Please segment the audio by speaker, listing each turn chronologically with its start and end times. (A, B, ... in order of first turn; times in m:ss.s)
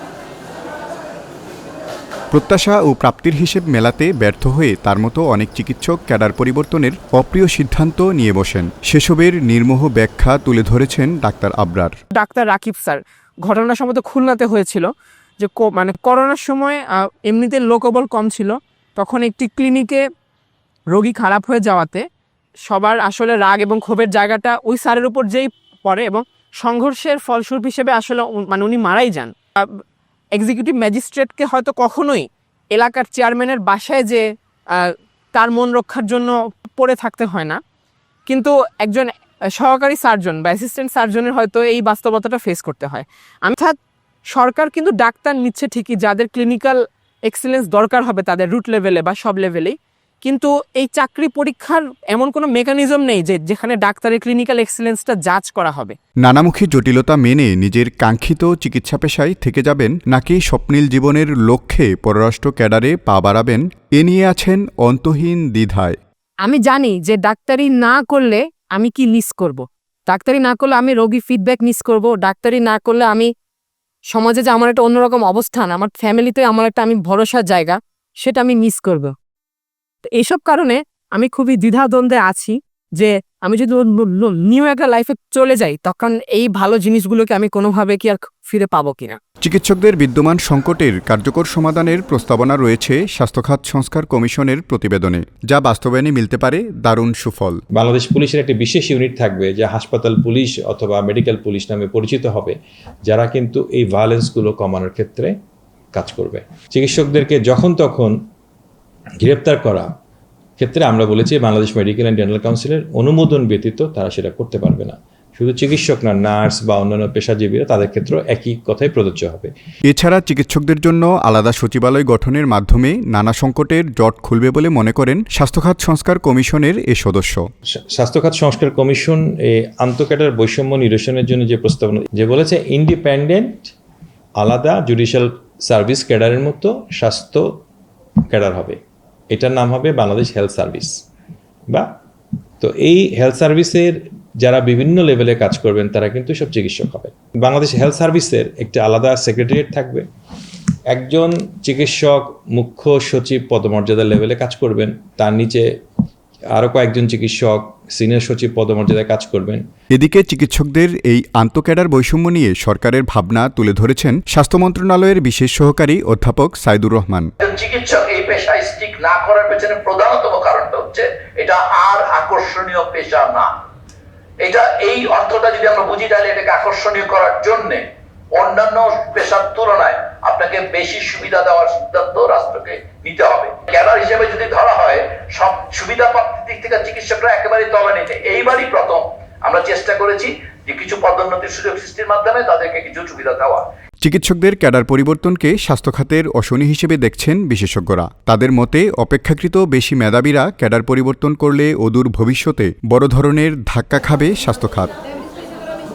0:02.3-0:11.9 A
0:12.1-0:20.0 B
0:20.9-0:22.0 B
0:22.6-0:29.8 B
0:30.3-0:34.2 B
0:34.7-0:37.6 B
0:38.3-0:43.8 B
0:44.3-0:56.0 B
0:56.2-1:06.0 A
1:06.4-1:13.3 B
1:14.1-1:19.1 B
1:20.2-1:29.2 B
1:29.4-1:37.6 A
1:37.7-1:45.3 C
1:45.9-1:48.2 C
1:49.2-1:49.9 C
1:50.6-1:59.5 C
1:59.9-2:07.4 A
2:07.8-2:13.7 C
2:14.4-2:17.6 C
2:18.3-2:18.8 C
2:19.3-2:21.0 C
2:22.6-2:30.0 C
2:30.9-2:35.7 C
2:36.5-2:39.6 C
2:39.9-2:47.3 A
2:47.4-2:53.5 D
2:54.4-2:57.8 D
2:58.4-3:13.6 D
3:14.0-3:24.9 A